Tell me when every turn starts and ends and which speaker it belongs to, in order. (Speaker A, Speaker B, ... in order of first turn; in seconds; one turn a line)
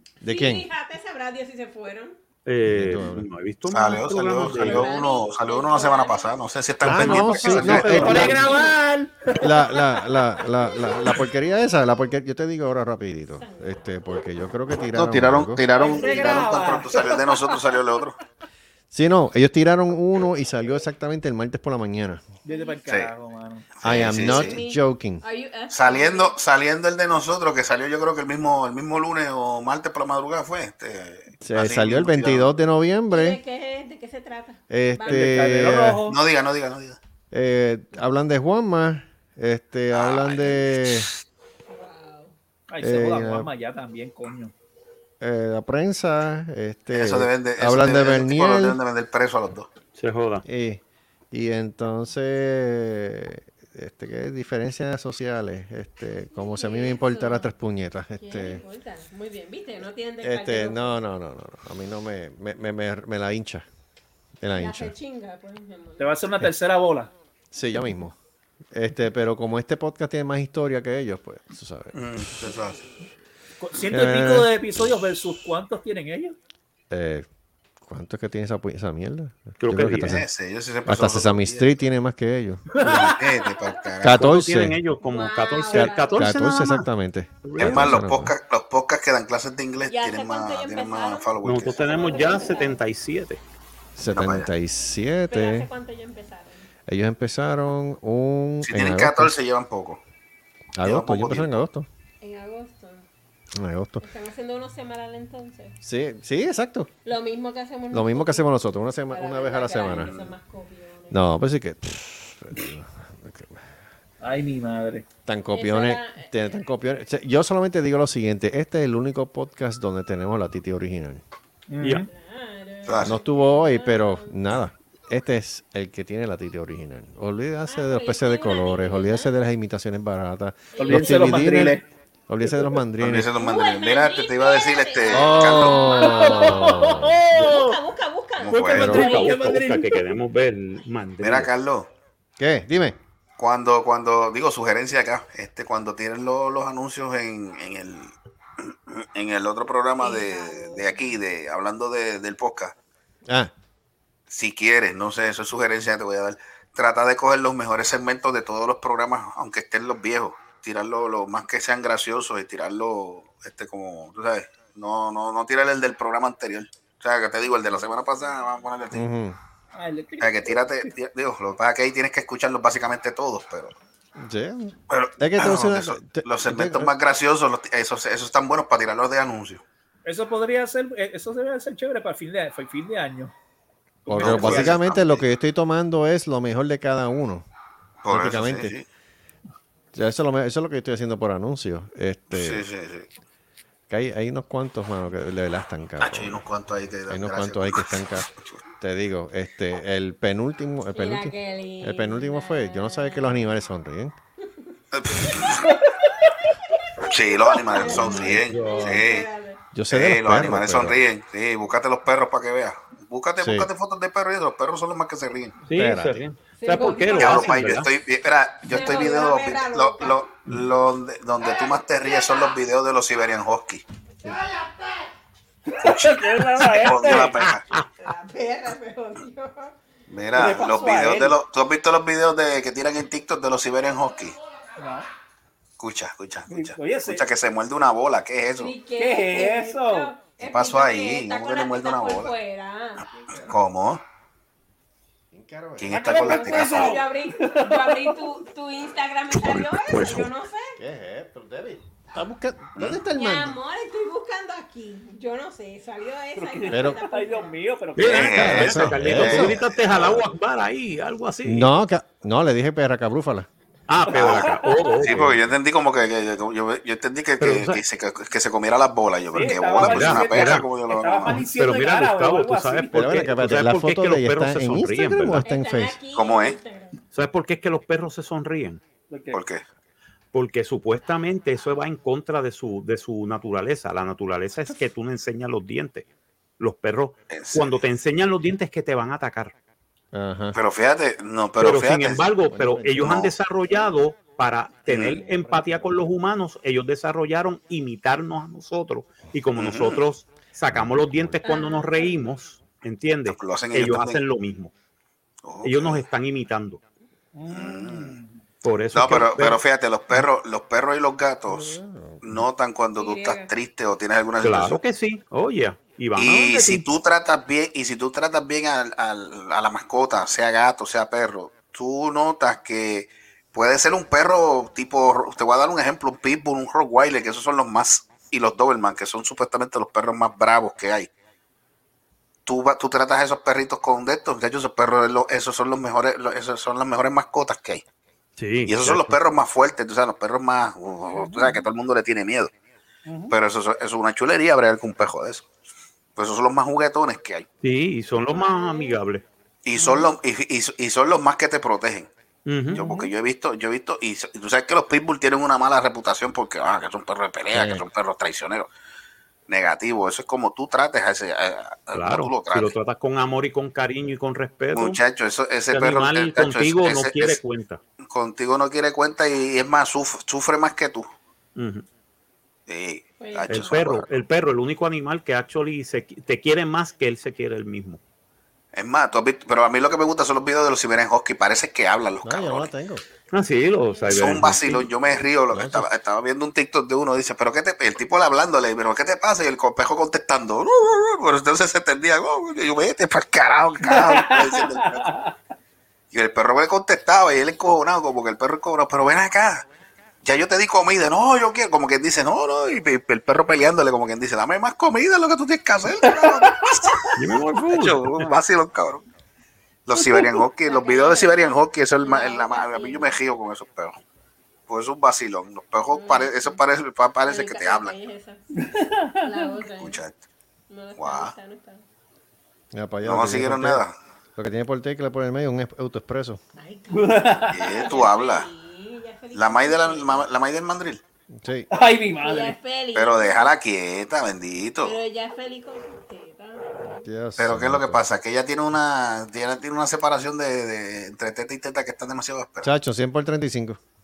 Speaker A: 0.2-0.7
Speaker B: 0.2-2.1
Speaker C: 2.4-4.9
Speaker A: 2.6-3.3
Speaker D: 3.7-8.4
Speaker B: 4.5-6.3
Speaker A: 6.8-8.5
Speaker C: 6.8-8.5
Speaker E: 7.5-9.5
Speaker B: 8.2-8.8
Speaker A: 9.4-15.6
Speaker B: 9.4-11.2
Speaker B: 13.3-13.9
Speaker D: 14.9-18.2
Speaker E: 15.7-17.8
Speaker B: 16.0-16.4
Speaker A: 18.9-22.2
Speaker E: 22.4-23.7
Speaker B: 22.5-22.8
Speaker D: 23.8-24.6
Speaker A: 23.8-25.2
Speaker B: 24.2-26.4
Speaker D: 25.7-32.5
Speaker A: 31.4-33.4
Speaker B: 33.1-35.4
Speaker A: 34.7-36.0
Speaker E: 35.0-36.2
Speaker D: 36.0-37.0
Speaker A: 37.3-41.1
Speaker D: 39.9-41.1
Speaker B: 41.7-42.3
Speaker E: 42.7-44.5
Speaker A: 42.8-43.5
Speaker A: 45.2-48.8
Speaker D: 46.9-49.7
Speaker C: 49.9-50.4
Speaker A: 50.4-58.6
Speaker B: 56.3-57.5
Speaker B: 58.2-61.0
Speaker A: 60.2-63.6
Speaker A: 64.4-64.9
Speaker B: 64.5-66.2
Speaker E: 66.0-67.1
Speaker A: 67.5-68.2
Speaker A: 68.7-72.5
Speaker D: 71.9-72.9
Speaker E: 73.6-76.3
Speaker A: 73.9-74.6
Speaker A: 76.9-77.3
Speaker A: 77.8-80.3
Speaker C: 79.6-80.2
Speaker D: 80.0-81.7
Speaker A: 80.8-82.8
Speaker E: 82.7-83.2
Speaker D: 82.8-84.3
Speaker A: 84.0-84.8
Speaker C: 84.1-86.8
Speaker B: 85.0-86.3
Speaker A: 85.7-88.3
Speaker C: 87.4-88.0
Speaker D: 87.6-92.4
Speaker B: 89.9-92.8
Speaker C: 91.4-93.4
Speaker A: 94.0-95.7
Speaker D: 94.1-94.5
Speaker B: 95.3-96.7
Speaker A: 96.9-99.3
Speaker D: 98.6-100.0
Speaker A: 100.8-101.9
Speaker D: 100.8-101.6
Speaker B: 102.2-103.1
Speaker A: 103.5-104.0
Speaker B: 104.0-105.8
Speaker A: 105.8-106.9
Speaker B: 107.0-108.5
Speaker A: 107.9-110.1
Speaker B: 109.1-111.2
Speaker D: 109.9-110.3
Speaker A: 111.1-113.6
Speaker E: 114.2-115.0
Speaker A: 115.2-121.2
Speaker B: 115.5-116.6
Speaker E: 121.7-122.1
Speaker C: 121.8-122.0
Speaker B: 122.1-124.3
Speaker D: 122.8-123.2
Speaker A: 123.0-133.3
Speaker B: 127.7-129.3
Speaker B: 130.7-131.5
Speaker E: 130.8-131.8
Speaker E: 132.4-132.7
Speaker D: 133.0-135.9
Speaker B: 133.3-139.4
Speaker A: 135.1-137.2
Speaker E: 135.9-137.8
Speaker D: 138.4-139.0
Speaker E: 138.5-140.1
Speaker A: 138.8-139.0
Speaker C: 138.9-141.5
Speaker D: 141.2-141.9
Speaker A: 142.4-143.0
Speaker D: 143.4-152.7
Speaker B: 150.0-151.2
Speaker A: 153.3-153.5
Speaker D: 154.3-169.0
Speaker A: 168.9-169.4
Speaker E: 169.7-170.9
Speaker D: 170.2-173.7
Speaker A: 174.2-176.9
Speaker D: 174.9-179.6
Speaker E: 180.0-183.3
Speaker E: 184.0-184.7
Speaker A: 184.1-187.4
Speaker D: 184.1-185.2
Speaker D: 188.0-188.8
Speaker A: 188.1-188.7
Speaker A: 189.9-192.6
Speaker D: 192.3-193.1
Speaker A: 193.9-196.4
Speaker D: 196.0-198.6
Speaker A: 197.1-198.3
Speaker A: 198.8-204.2
Speaker B: 200.9-203.5
Speaker D: 204.9-205.7
Speaker E: 205.6-206.5
Speaker D: 207.0-209.3
Speaker B: 207.5-209.6
Speaker C: 207.8-209.0
Speaker A: 209.7-211.0
Speaker D: 209.9-215.6
Speaker A: 213.4-213.7
Speaker C: 215.7-217.9
Speaker A: 215.7-216.2
Speaker B: 216.6-217.6
Speaker D: 217.1-223.8
Speaker B: 218.7-220.2
Speaker B: 224.3-224.7
Speaker E: 225.7-227.4
Speaker D: 225.8-227.7
Speaker C: 227.1-227.8
Speaker B: 228.0-229.7
Speaker D: 230.1-234.3
Speaker E: 230.3-231.4
Speaker E: 234.8-235.1
Speaker D: 235.8-238.7
Speaker E: 236.5-237.2
Speaker B: 238.6-243.1
Speaker E: 239.0-240.1
Speaker D: 240.4-242.3
Speaker A: 243.2-243.6
Speaker D: 243.4-244.0
Speaker A: 245.3-246.1
Speaker D: 245.8-247.0
Speaker E: 245.9-248.3
Speaker B: 246.0-250.8
Speaker A: 250.8-253.6
Speaker D: 252.8-253.0
Speaker B: 253.1-257.5
Speaker E: 256.4-258.6
Speaker A: 256.7-257.0
Speaker C: 257.9-261.7
Speaker D: 258.0-260.3
Speaker A: 258.4-259.6
Speaker A: 261.4-263.5
Speaker C: 263.9-265.4
Speaker E: 264.1-265.0
Speaker D: 264.1-271.5
Speaker C: 267.4-267.8
Speaker E: 269.3-273.6
Speaker C: 269.8-270.7
Speaker C: 271.4-275.4
Speaker A: 272.9-276.0
Speaker B: 275.4-276.9
Speaker D: 276.1-276.6
Speaker C: 277.1-278.8
Speaker E: 279.1-279.4
Speaker D: 279.3-279.6
Speaker C: 280.3-286.1
Speaker C: 286.6-289.5
Speaker D: 287.3-287.9
Speaker A: 290.1-290.6
Speaker D: 290.5-292.3
Speaker C: 291.6-304.7
Speaker A: 292.3-293.2
Speaker D: 293.0-293.4
Speaker D: 294.9-295.3
Speaker A: 295.2-296.0
Speaker D: 299.5-300.0
Speaker A: 300.7-301.4
Speaker B: 301.4-302.1
Speaker D: 303.2-304.2
Speaker D: 305.4-306.0
Speaker C: 305.6-306.8
Speaker E: 307.3-308.4
Speaker D: 307.5-308.2
Speaker C: 308.6-309.6
Speaker D: 308.9-314.8
Speaker A: 311.5-312.4
Speaker B: 313.0-313.5
Speaker C: 314.4-316.9
Speaker D: 316.1-331.1
Speaker D: 332.4-337.8
Speaker C: 338.4-339.2
Speaker D: 338.6-342.5
Speaker E: 341.2-341.6
Speaker E: 343.1-343.3
Speaker D: 343.3-345.5
Speaker D: 346.1-347.5
Speaker C: 347.6-349.2
Speaker B: 348.3-349.0
Speaker D: 349.6-352.1
Speaker E: 349.8-350.1
Speaker C: 352.4-352.9
Speaker D: 352.7-358.7
Speaker E: 352.7-353.1
Speaker A: 357.5-357.8
Speaker D: 359.5-362.8
Speaker C: 361.9-365.0
Speaker D: 364.7-367.4
Speaker C: 365.7-367.8
Speaker D: 368.1-371.1
Speaker C: 371.6-371.8
Speaker D: 372.7-374.1
Speaker B: 373.2-373.7
Speaker C: 373.5-378.0
Speaker D: 378.7-382.7
Speaker A: 382.2-383.0
Speaker C: 383.3-384.9
Speaker B: 383.9-384.3
Speaker D: 384.1-395.2
Speaker A: 385.5-385.9
Speaker E: 393.8-395.3
Speaker D: 396.1-399.7
Speaker D: 400.2-409.0
Speaker E: 406.0-406.9
Speaker C: 407.2-408.3
Speaker D: 409.9-414.0
Speaker B: 410.6-413.2
Speaker D: 414.7-417.9
Speaker B: 415.9-416.6
Speaker B: 417.2-418.5
Speaker E: 418.6-419.5
Speaker B: 419.1-420.0
Speaker D: 419.8-420.2
Speaker B: 420.7-421.8
Speaker D: 421.0-421.3
Speaker A: 422.7-423.8
Speaker D: 423.0-423.9
Speaker A: 424.4-426.4
Speaker B: 426.6-430.3
Speaker E: 426.9-427.9
Speaker D: 427.5-428.5
Speaker D: 429.3-431.0
Speaker A: 431.3-431.7
Speaker E: 431.7-432.6
Speaker B: 432.2-433.6
Speaker D: 432.9-435.0
Speaker B: 434.8-437.0
Speaker A: 437.0-438.0
Speaker D: 437.4-442.7
Speaker A: 442.6-443.8